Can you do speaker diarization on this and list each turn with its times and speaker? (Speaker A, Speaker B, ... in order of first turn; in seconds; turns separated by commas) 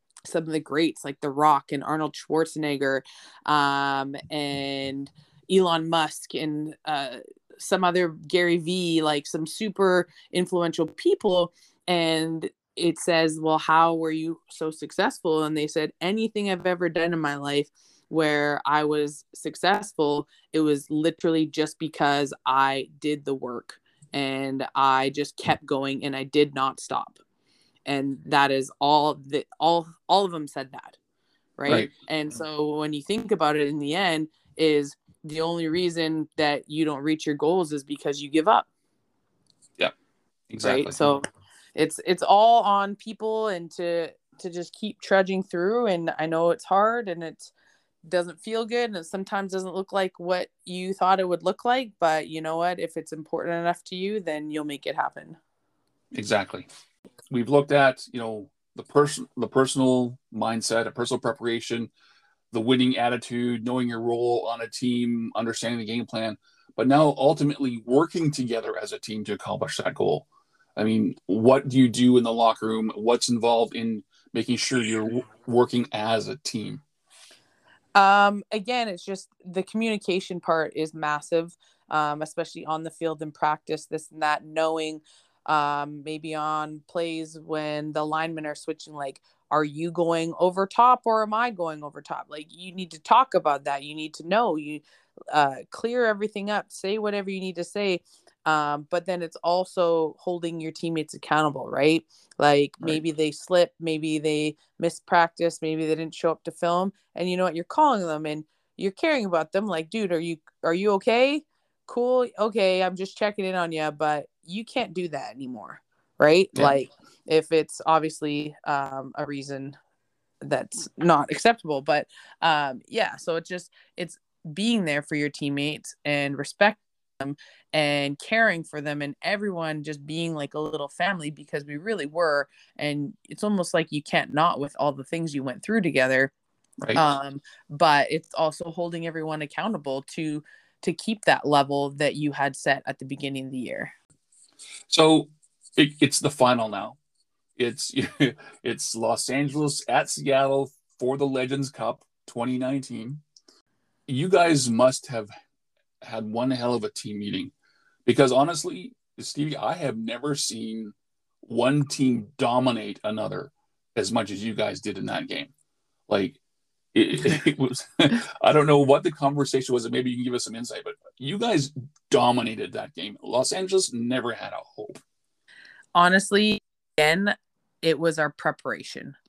Speaker A: 0.3-27.2, Speaker A: 27.9-31.0, Speaker A: 31.6-38.7, Speaker B: 40.5-41.0, Speaker A: 40.6-47.5, Speaker A: 48.0-55.4, Speaker B: 56.1-56.7, Speaker B: 57.3-61.9, Speaker B: 62.5-76.8, Speaker A: 78.0-119.8, Speaker A: 120.4-136.3, Speaker A: 136.9-143.9, Speaker B: 144.9-147.0, Speaker B: 147.6-153.2, Speaker B: 154.1-155.3, Speaker B: 156.0-157.5, Speaker B: 158.1-165.5, Speaker B: 166.1-166.4, Speaker B: 166.9-175.0, Speaker A: 175.9-179.1